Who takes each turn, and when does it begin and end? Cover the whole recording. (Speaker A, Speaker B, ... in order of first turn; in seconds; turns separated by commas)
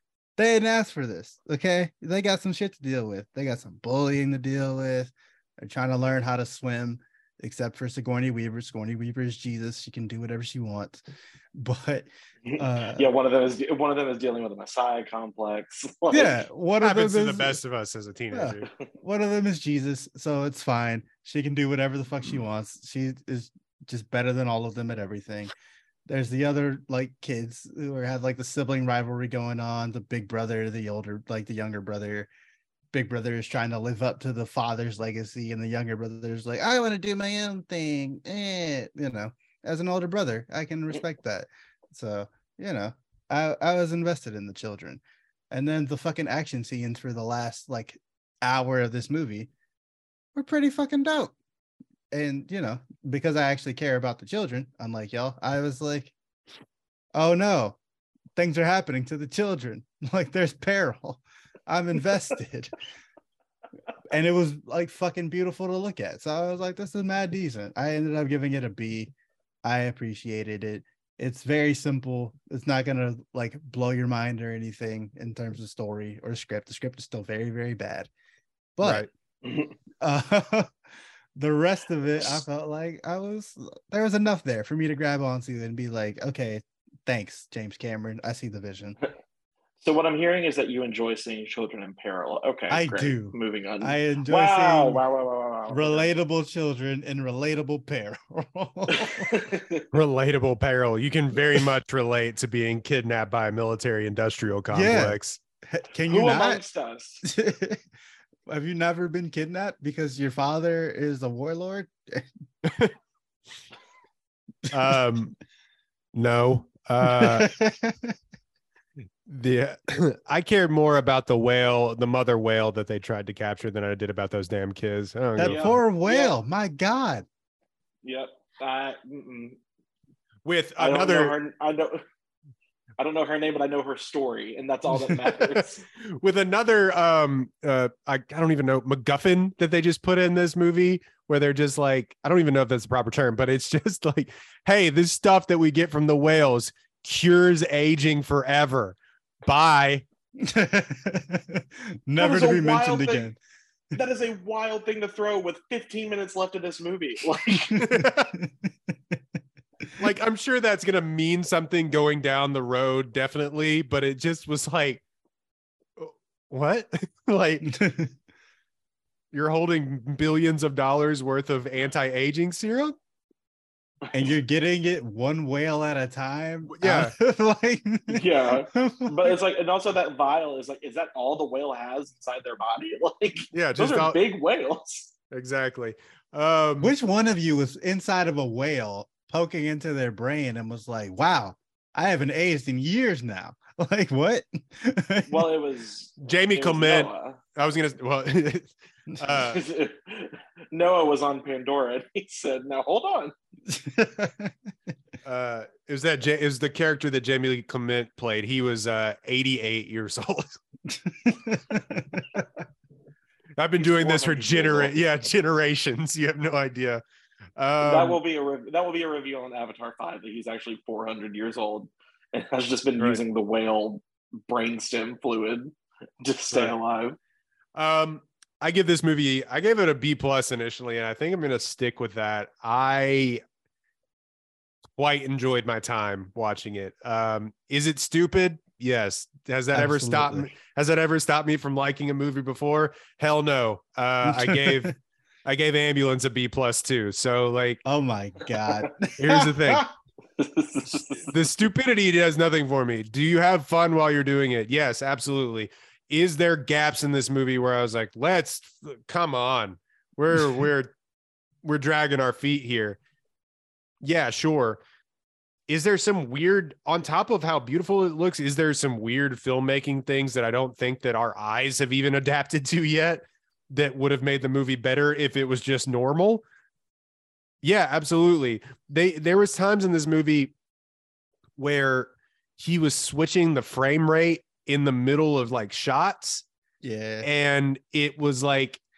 Speaker A: 0.4-11.0, Speaker A: 11.5-13.1, Speaker B: 12.4-16.4, Speaker A: 16.1-17.6, Speaker C: 16.8-18.7, Speaker A: 18.3-25.5, Speaker A: 26.1-32.3, Speaker A: 32.9-49.5, Speaker A: 50.3-51.3, Speaker A: 52.1-56.1, Speaker A: 57.1-57.8, Speaker A: 58.4-62.8, Speaker A: 64.1-69.1, Speaker A: 69.6-78.1, Speaker A: 78.8-79.1, Speaker C: 78.8-79.1, Speaker B: 79.4-79.7, Speaker A: 80.0-80.7, Speaker A: 81.3-89.0, Speaker B: 89.8-96.1, Speaker A: 92.7-95.0, Speaker A: 95.7-99.3, Speaker B: 98.9-99.9, Speaker C: 99.9-105.4, Speaker A: 104.7-106.6, Speaker B: 106.1-107.2, Speaker A: 107.2-107.8, Speaker A: 108.5-112.3, Speaker C: 112.7-112.9, Speaker C: 114.7-115.4, Speaker C: 116.1-117.5, Speaker A: 117.0-118.2, Speaker C: 119.3-125.8, Speaker A: 125.4-127.2, Speaker B: 125.4-126.3, Speaker B: 128.0-129.6, Speaker C: 130.4-131.3, Speaker B: 130.8-132.0, Speaker B: 133.0-135.8, Speaker C: 136.0-150.0, Speaker A: 150.4-153.4, Speaker B: 152.2-153.3, Speaker B: 153.9-157.8, Speaker A: 157.7-159.2, Speaker C: 157.8-158.3, Speaker C: 160.0-165.0, Speaker C: 166.0-167.7, Speaker A: 167.6-168.1, Speaker C: 169.3-172.9, Speaker A: 174.1-179.4, Speaker C: 176.7-177.1, Speaker B: 178.1-185.1, Speaker C: 183.5-184.2, Speaker C: 185.3-186.9, Speaker A: 186.8-195.5, Speaker B: 195.3-197.4, Speaker C: 196.2-199.6, Speaker B: 199.4-203.3, Speaker A: 203.7-204.5, Speaker C: 205.2-210.6, Speaker A: 211.0-212.4, Speaker C: 213.6-217.0, Speaker B: 213.8-214.9, Speaker C: 217.6-218.2, Speaker B: 217.8-227.2, Speaker C: 227.7-233.4, Speaker C: 234.9-247.8, Speaker A: 239.7-240.5, Speaker A: 244.2-244.9, Speaker A: 247.8-249.9, Speaker C: 249.2-249.9, Speaker B: 250.4-251.3, Speaker C: 251.3-260.9, Speaker C: 261.6-263.0, Speaker C: 264.0-264.8, Speaker C: 265.7-276.4, Speaker C: 277.6-280.5, Speaker C: 281.6-286.4, Speaker A: 286.8-287.3, Speaker C: 287.2-288.8